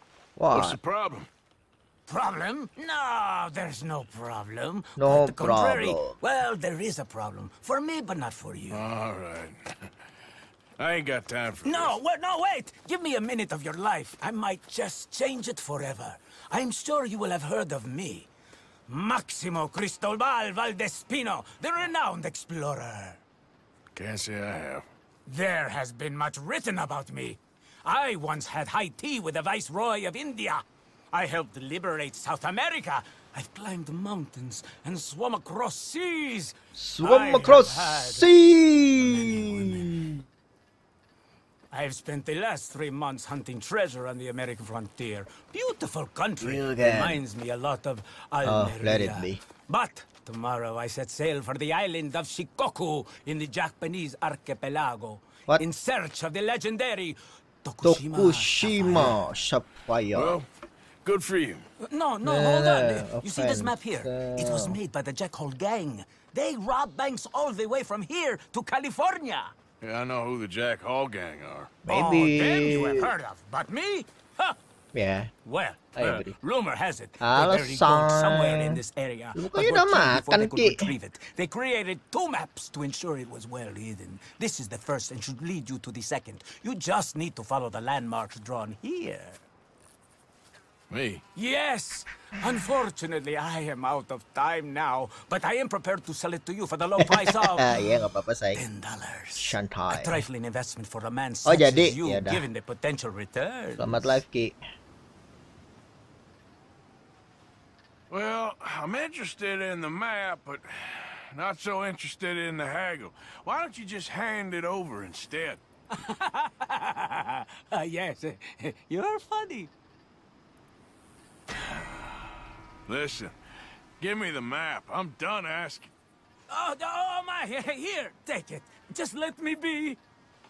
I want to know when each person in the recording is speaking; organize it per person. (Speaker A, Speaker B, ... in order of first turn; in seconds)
Speaker A: 0.4-0.8, 5.0-6.2, 36.8-40.1, 46.4-47.2, 48.4-49.4, 57.8-60.4, 62.2-64.8, 71.8-73.1, 74.9-75.3, 76.0-76.4, 77.2-78.8, 79.3-81.0, 97.0-98.6, 99.4-100.2, 101.5-102.5, 103.8-104.6
Speaker B: 0.5-1.3, 8.7-9.6, 10.8-11.9, 23.9-24.8, 60.1-60.5, 61.0-61.6, 69.8-71.8, 90.9-91.2, 108.1-115.6, 122.9-123.3, 124.0-125.9
Speaker C: 2.1-8.8, 11.6-18.3, 18.9-23.2, 25.3-38.3, 39.0-40.1, 41.7-59.2, 61.8-69.5, 71.9-74.6, 75.4-89.4, 91.3-98.0, 98.5-104.2, 115.9-119.7, 126.5-130.0